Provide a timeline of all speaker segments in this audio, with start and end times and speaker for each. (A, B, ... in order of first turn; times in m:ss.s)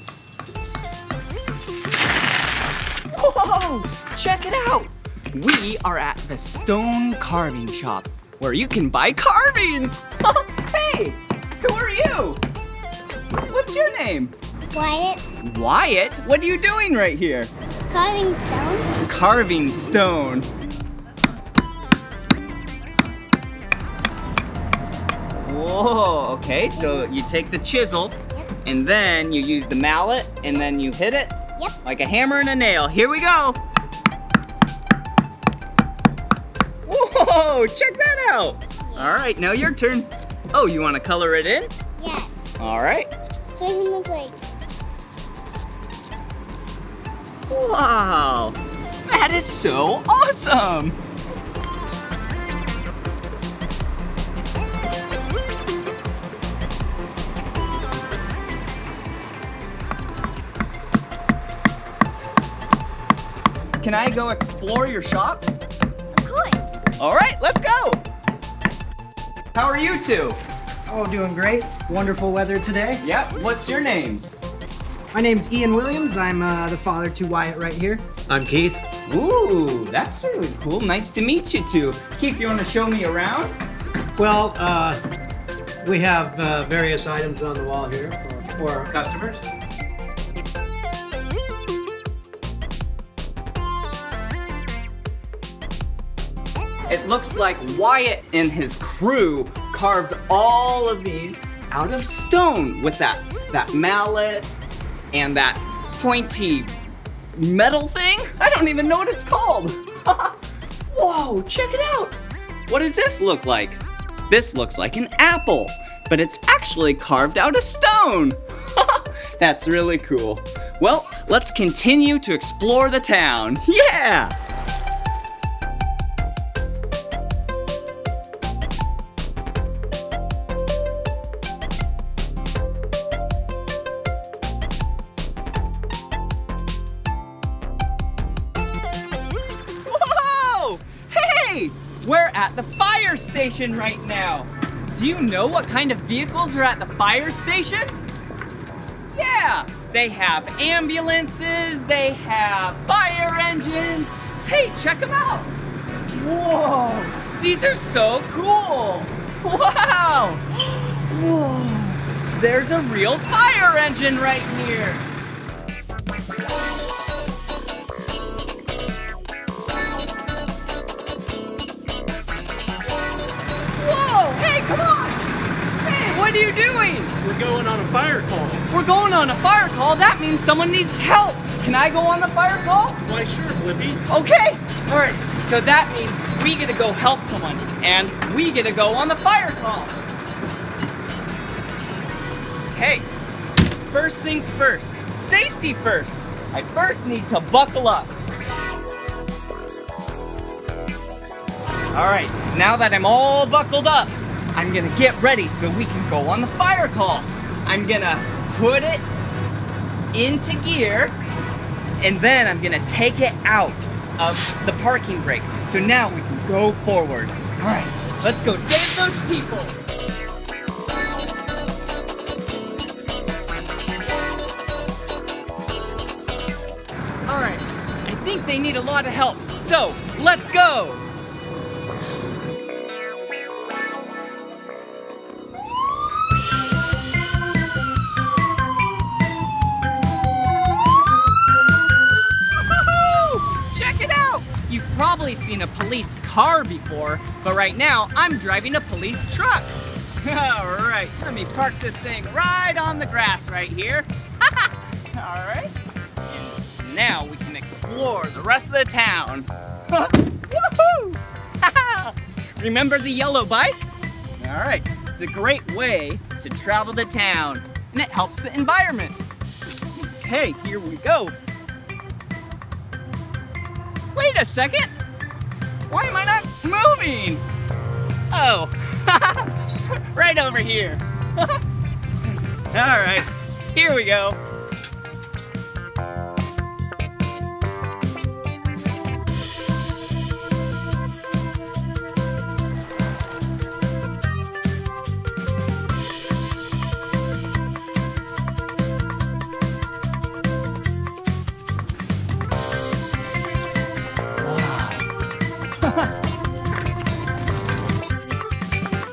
0:03.1-0:12.4 A
0:13.5-0:14.3 A
0:14.7-0:15.3 B
0:15.4-0:17.5 A
0:17.9-0:18.9 B
0:19.0-0:20.5 A
0:25.4-0:33.6 A
0:36.9-0:41.7 A
0:42.0-0:42.4 B
0:42.6-0:43.1 A
0:43.6-0:44.4 B
0:47.5-0:48.6 A
0:49.1-0:51.0 A
1:03.8-1:05.5 A
1:06.2-1:06.6 B
1:07.0-1:08.0 A
1:09.5-1:10.4 A
1:10.9-1:13.0 C
1:13.0-1:14.4 A
1:15.1-1:18.1 C
1:18.3-1:18.9 D
1:19.1-1:23.5 A
1:24.2-1:25.0 D
1:25.8-1:29.4 D
1:36.9-1:44.5 A
1:45.1-1:46.7 A
1:47.3-1:50.4 A
1:50.9-2:04.3 A
2:19.8-2:28.0 A
2:29.1-2:35.5 A
2:36.1-2:40.4 A
2:41.1-2:45.0 A
2:53.8-2:55.2 A
2:55.8-2:57.2 A
2:57.2-2:58.6 E
2:58.7-3:03.0 A
3:03.0-3:04.0 E
3:04.1-3:10.0 A
3:12.7-3:13.1 A
3:13.9-3:18.1 A
3:21.9-3:29.0 A
3:30.1-3:31.2 A
3:32.0-3:39.7 A
3:47.3-3:51.0 A
4:02.6-4:09.7 A
4:10.2-4:15.7 A
4:16.3-4:23.9 A
4:24.4-4:29.2 A
4:30.0-4:31.4 A
4:34.2-4:34.9 A
4:35.9-4:37.4 A
4:38.3-4:39.5 A
4:40.1-4:41.5 A
4:42.7-4:44.4 A
5:04.4-5:05.0 A